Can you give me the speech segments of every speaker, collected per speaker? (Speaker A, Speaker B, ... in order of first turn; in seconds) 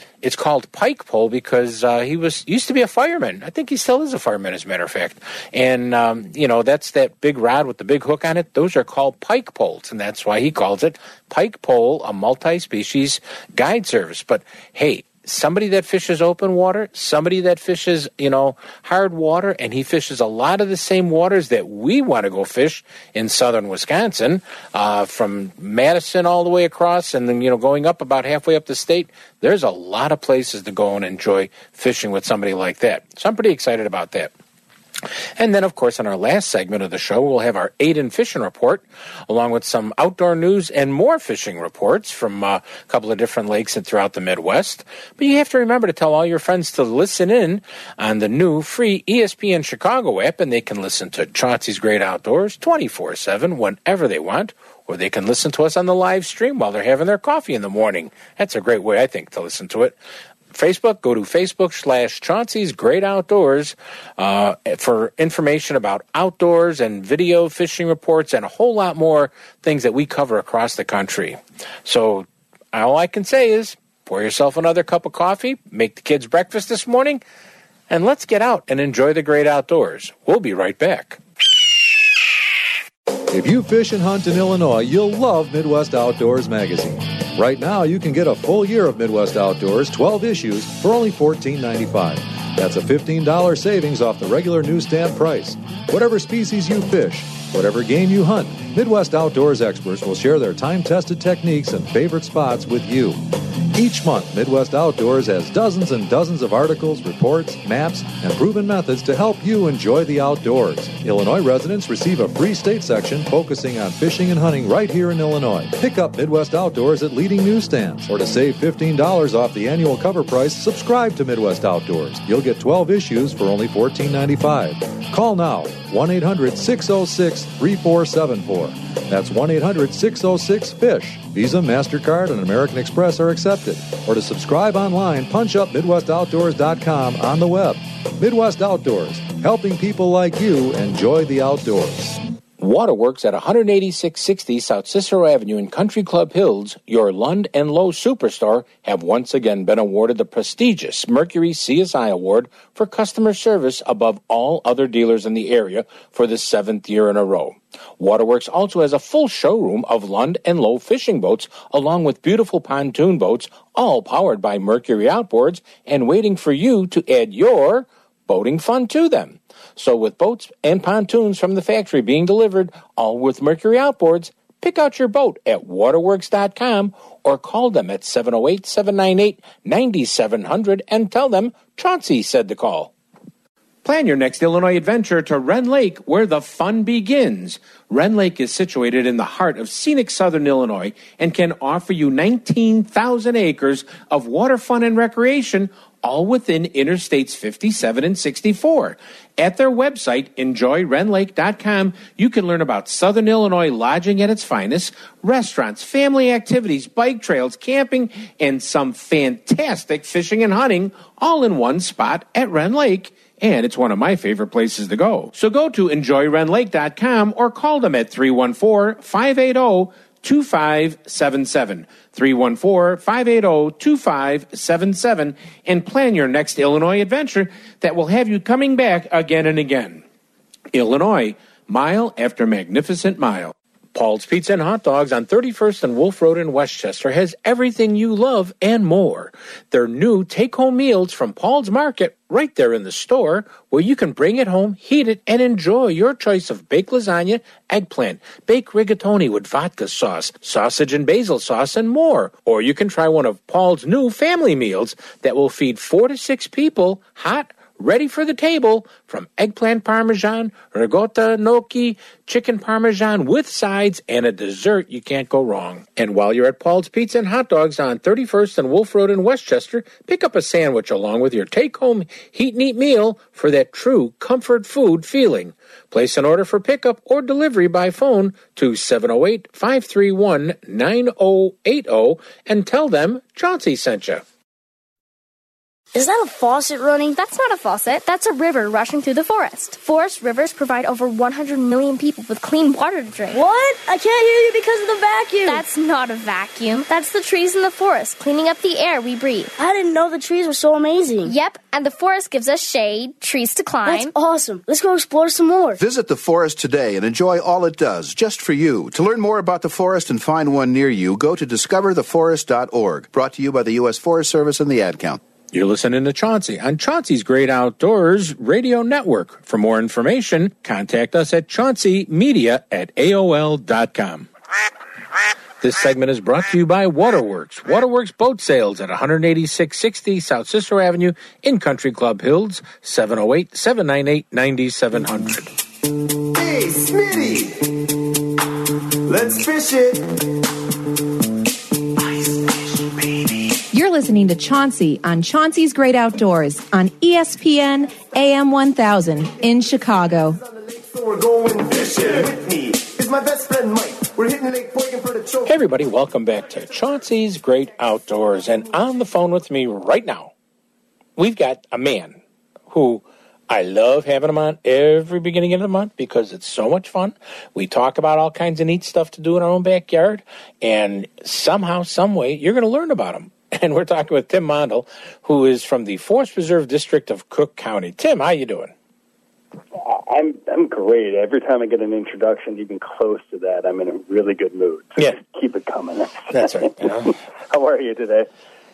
Speaker A: 0.2-34.3, 35.4-60.0, 60.5-77.2, 77.9-81.2, 142.6-182.9, 183.8-230.0, 230.7-284.2, 315.5-324.3, 325.6-335.5, 355.5-360.3, 361.2-362.2, 362.7-378.7, 386.3-387.1
Speaker B: 83.3-142.2
Speaker C: 285.9-287.2, 293.3-295.6, 299.6-301.3, 303.9-305.8
Speaker D: 287.1-293.4, 295.4-299.5, 301.2-304.1
Speaker E: 305.8-315.2
Speaker F: 336.3-337.8, 339.1-340.2, 342.2-343.5, 350.4-355.5
Speaker G: 343.7-350.4
Speaker H: 379.7-388.3